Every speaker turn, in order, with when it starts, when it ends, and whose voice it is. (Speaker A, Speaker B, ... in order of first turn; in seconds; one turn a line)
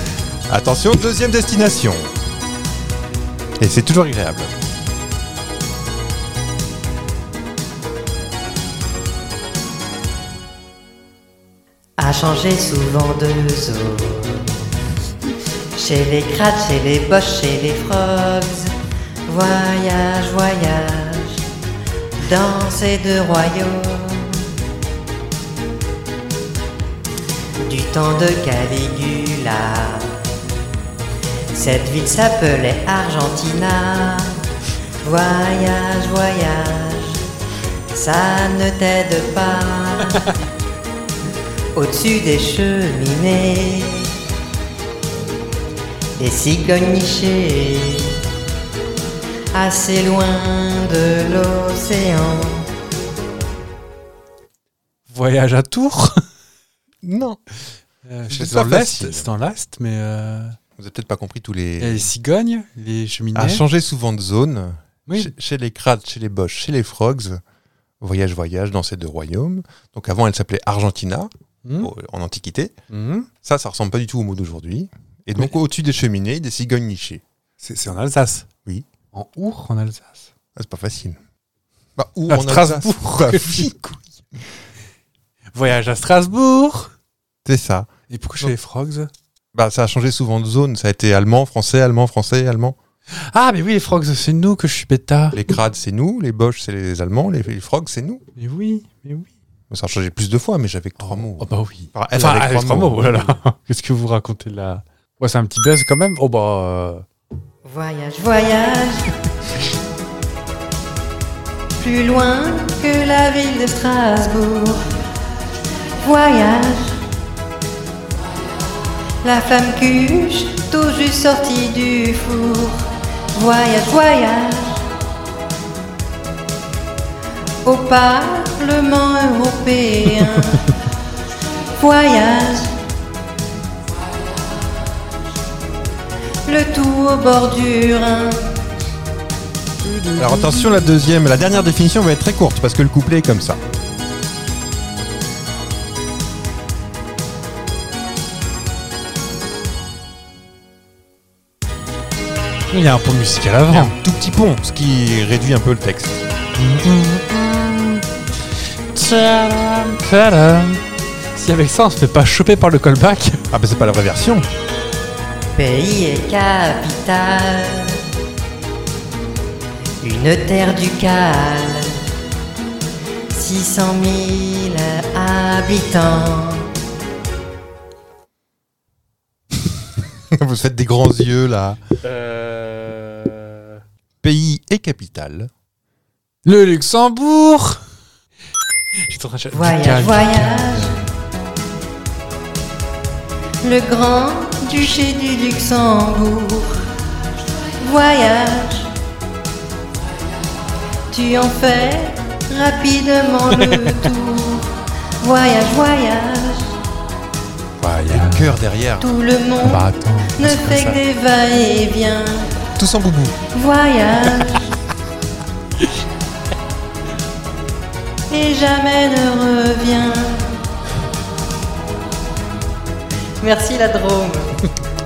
Speaker A: 0.5-2.1
Speaker A: 3.6-4.5
Speaker B: 12.0-14.6
Speaker B: 15.8-18.7
Speaker B: 19.2-21.4
Speaker B: 22.2-24.5
Speaker B: 27.6-30.2
Speaker B: 31.5-34.3
Speaker B: 35.0-37.2
Speaker B: 37.9-40.3
Speaker B: 41.7-44.1
Speaker B: 46.2-48.2
Speaker B: 49.5-52.7
Speaker C: 55.1-56.2
Speaker A: 57.0-57.4
Speaker C: 58.0-60.6
Speaker A: 58.3-59.3
Speaker A: 60.8-62.1
Speaker C: 61.8-63.6
Speaker A: 63.3-67.4
Speaker C: 65.1-65.3
Speaker A: 68.0-72.7
Speaker C: 71.6-71.9
Speaker C: 72.9-73.3
Speaker A: 73.4-77.2
Speaker C: 77.6-78.5
Speaker C: 79.1-80.3
Speaker A: 80.5-81.2
Speaker A: 82.0-83.9
Speaker C: 82.3-84.0
Speaker C: 85.5-86.9
Speaker A: 87.4-87.9
Speaker C: 88.1-89.1
Speaker A: 89.5-92.8
Speaker C: 93.1-95.4
Speaker A: 95.3-98.2
Speaker C: 98.3-99.3
Speaker A: 99.7-103.4
Speaker C: 101.0-107.0
Speaker B: 107.6-109.1
Speaker B: 111.8-114.8
Speaker B: 116.0-117.0
Speaker B: 119.2-124.8
Speaker B: 127.6-130.7
Speaker B: 131.8-132.7
Speaker B: 136.4-138.4
Speaker C: 139.8-140.8
Speaker A: 140.2-143.6
Speaker C: 152.7-153.9
Speaker A: 153.7-156.2
Speaker C: 156.5-158.0
Speaker C: 158.9-160.8
Speaker C: 161.3-163.4
Speaker A: 163.5-164.4
Speaker B: 165.5-168.0
Speaker B: 170.0-172.0
Speaker B: 173.3-176.7
Speaker A: 180.3-181.8
Speaker C: 182.0-183.8
Speaker A: 184.2-185.5
Speaker C: 186.4-187.8
Speaker C: 189.0-191.0
Speaker B: 189.5-191.0
Speaker B: 193.6-196.8
Speaker B: 197.8-198.9
Speaker B: 201.1-204.7
Speaker B: 205.2-206.8
Speaker C: 207.8-208.6
Speaker A: 208.1-209.1
Speaker B: 209.0-212.5
Speaker C: 209.6-211.0
Speaker A: 212.8-213.4
Speaker B: 213.5-214.7
Speaker B: 218.3-220.6
Speaker B: 223.4-224.5